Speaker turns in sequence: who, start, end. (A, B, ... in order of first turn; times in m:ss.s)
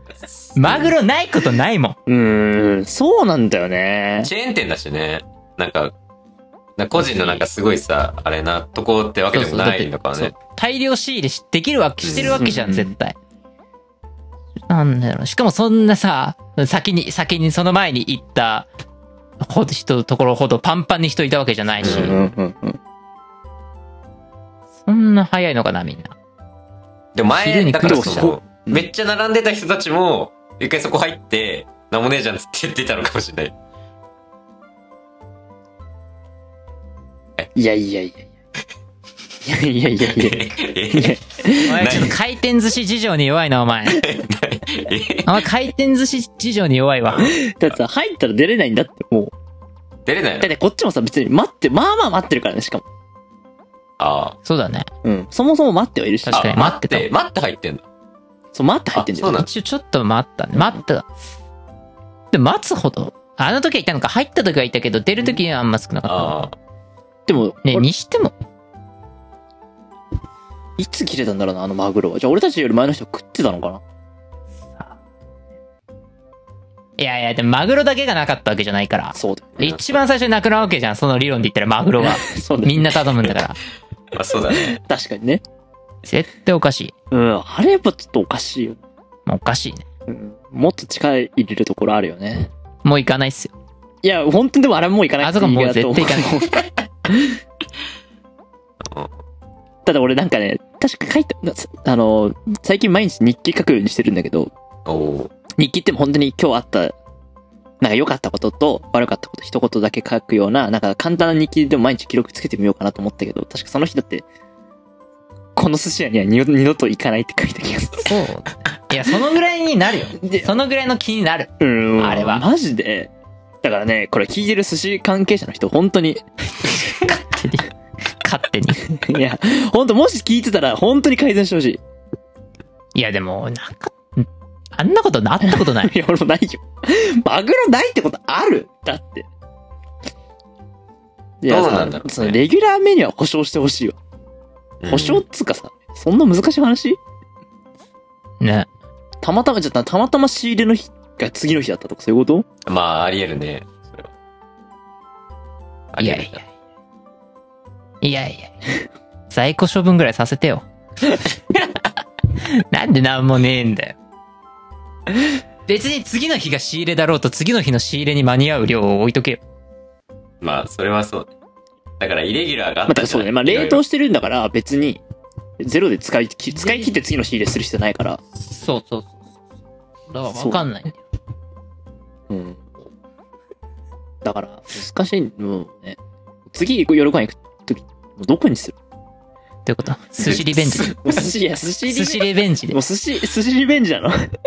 0:00.2-0:00.9 A
0:00.6-0:02.0 B
0:02.1-0:04.3 C
0:04.2-0:05.9 A
0:06.8-0:10.3 A
0:07.0-0:07.4 B
0:09.3-0:13.2 B
0:12.0-0:12.5 A
0:12.4-0:12.9 C
0:14.7-0:18.7 B
0:19.4-0:22.2 B
0:21.8-0:22.3 A
0:21.8-0:22.8 C
0:24.8-0:26.1 B
0:27.1-0:33.5 A
0:27.4-0:28.3 B
0:27.8-0:28.9 C
0:37.5-0:38.3 C
0:39.4-0:42.0 C
0:40.0-0:41.2 A
0:41.6-0:44.0 B
0:41.7-0:42.1 A
0:44.0-0:45.4 A
0:45.2-0:47.4 B
0:47.2-0:49.3 C
0:50.0-0:50.5 A
0:50.4-0:52.8 C
0:54.0-0:54.4 A
0:54.4-0:54.9 B
0:55.0-0:56.5 C
0:56.2-0:57.1 B
0:56.3-0:57.8 A
0:58.5-0:59.4 C
0:58.9-0:59.5 A
0:59.3-1:01.0 B
1:02.3-1:06.4 B
1:06.0-1:06.5 A
1:07.3-1:07.8 C
1:07.6-1:08.3 B
1:10.8-1:13.8 C
1:17.0-1:23.6 B
1:19.1-1:19.5 C
1:19.6-1:20.0 A
1:22.0-1:23.0 C
1:24.1-1:24.8 A
1:24.5-1:25.4 C
1:26.0-1:26.9 B
1:27.1-1:28.8 C
1:29.3-1:29.8 B
1:30.1-1:32.5 C
1:32.8-1:33.5 B
1:34.0-1:37.4 C
1:35.2-1:36.4 B
1:38.8-1:39.1 A
1:39.8-1:44.5 C
1:44.8-1:45.3 A
1:45.6-1:46.9 C
1:47.8-1:54.2 C
1:55.6-1:58.1 C
1:58.0-2:02.5 B
2:00.2-2:00.6 C
2:01.6-2:03.1 C
2:03.6-2:06.2 C
2:06.6-2:07.7 B
2:08.2-2:08.8 B
2:08.9-2:11.8 C
2:12.9-2:15.9 B
2:15.4-2:19.3 C
2:21.4-2:24.0 C
2:21.5-2:22.4 A
2:24.8-2:25.2 A
2:24.9-2:27.0 C
2:28.4-2:28.7 B
2:29.2-2:32.5 C
2:32.6-2:34.1 A
2:35.9-2:36.4 A
2:36.0-2:36.4 B
2:38.0-2:38.6 B
2:39.3-2:40.6 B
2:42.4-2:44.0 B
2:45.7-2:49.4 B
2:50.4-2:51.3 A
2:52.0-2:53.8 A
2:52.9-2:55.0 C
2:55.6-2:58.2 C
2:56.5-2:56.9 B
2:58.4-2:59.2 B
3:00.1-3:01.0 B
3:00.3-3:00.7 C
3:02.3-3:02.6 C
3:04.2-3:06.0 C
3:06.5-3:08.8 C
3:09.6-3:11.0 B
3:10.2-3:11.3 A
3:10.8-3:14.3 C
3:11.9-3:12.8 B